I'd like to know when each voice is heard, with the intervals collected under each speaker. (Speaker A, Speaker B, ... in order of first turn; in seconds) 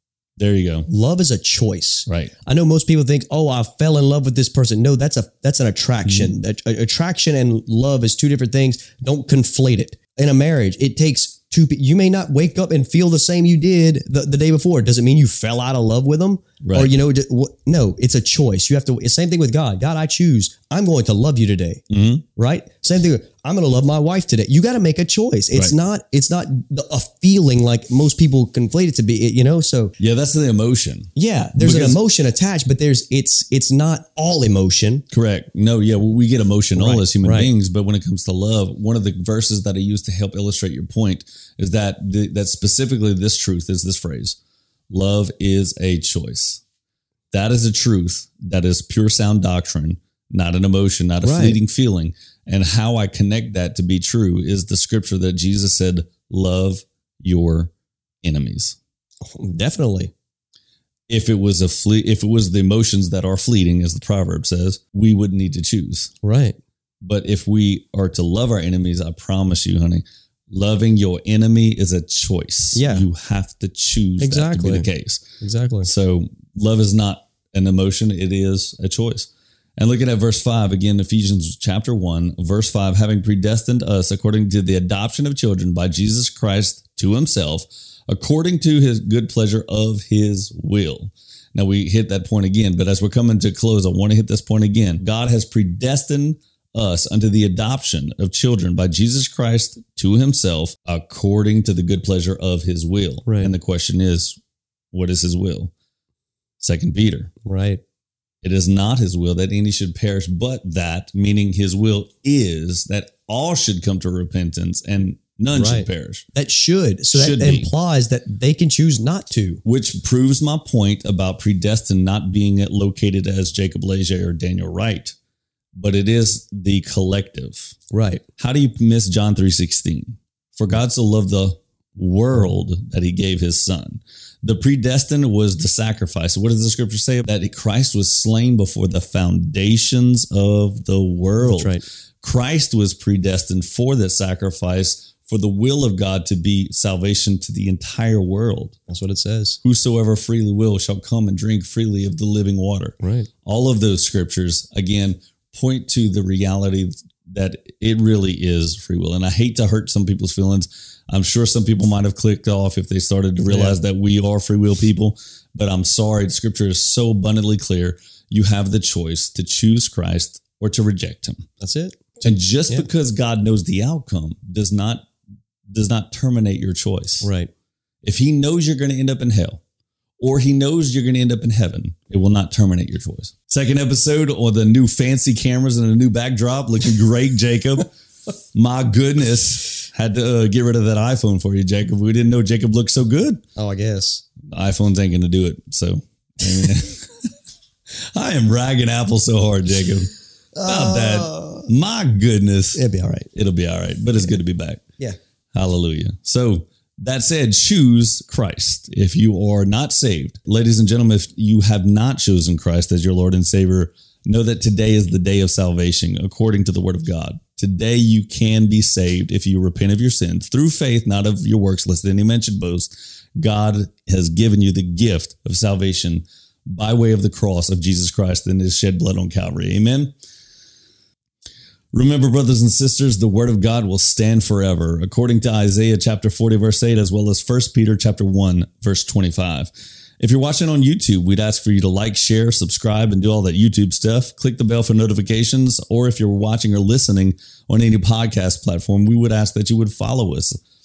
Speaker A: 0.4-0.9, 2.1-2.3, 16.6-16.9, 21.9-22.2, 30.0-32.0, 35.1-44.4, 44.9-46.6, 47.3-57.7, 58.2-58.8, 61.1-66.1, 67.0-75.2, 75.8-104.4, 104.9-105.7, 106.6-107.3, 108.4-116.2, 117.1-117.7, 119.6-125.1, 125.8-127.8, 128.4-148.8, 149.6-171.5, 172.2-175.1, 175.7-177.2, 178.0-179.6, 180.2-187.9, 188.5-193.4, 194.5-197.3, 198.0-200.1, 200.6-202.8, 203.3-204.8, 205.5-230.1, 231.9-250.6
Speaker B: 0.9-21.8, 22.4-29.9, 31.1-35.0, 36.7-37.5, 51.2-51.6, 59.2-60.1, 66.2-66.6, 72.7-73.1, 74.2-74.9, 75.4-75.9, 103.2-103.5, 107.5-107.8, 115.5-119.6, 127.9-128.2, 141.4-141.8, 148.9-149.6, 153.0-153.3, 163.5-163.8, 171.6-172.9, 177.2-177.5, 193.6-194.2, 200.5-201.7, 202.7-203.3